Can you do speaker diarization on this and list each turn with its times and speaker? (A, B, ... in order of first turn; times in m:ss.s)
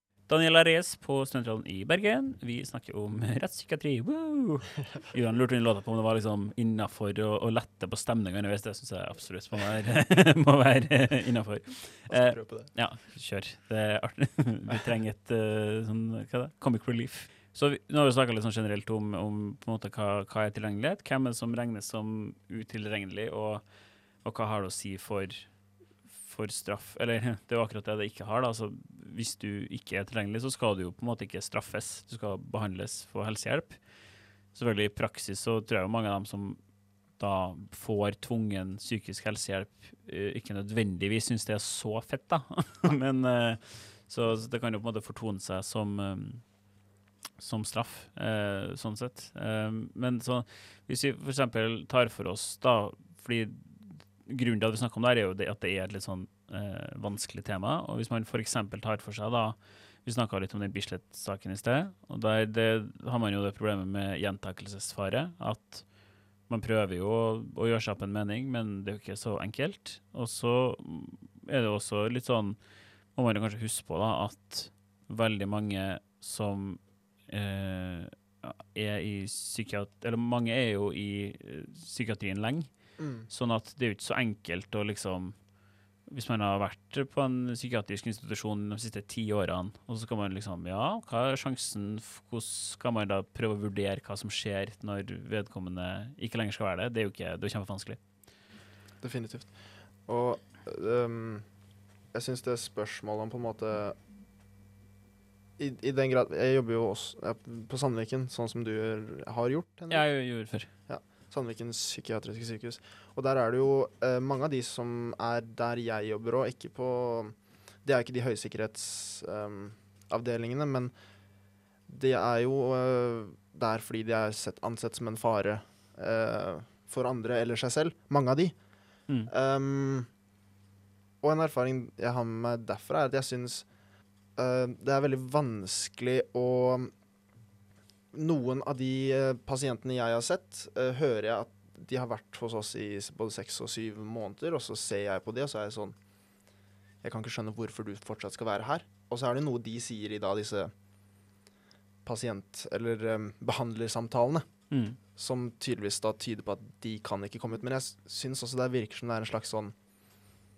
0:00.3-0:46.8 A
0:12.1-0:12.8 B
0:47.4-1:12.6 A
1:13.1-1:25.4 A
1:23.0-1:23.3 B
1:26.0-1:38.0 A
1:39.0-1:44.0 B
1:45.6-2:10.1 B
1:49.9-1:50.7 A
2:11.2-2:13.7 B
2:14.3-2:16.9 B
2:18.1-2:30.7 B
2:32.0-2:39.8 B
2:34.7-2:35.0 A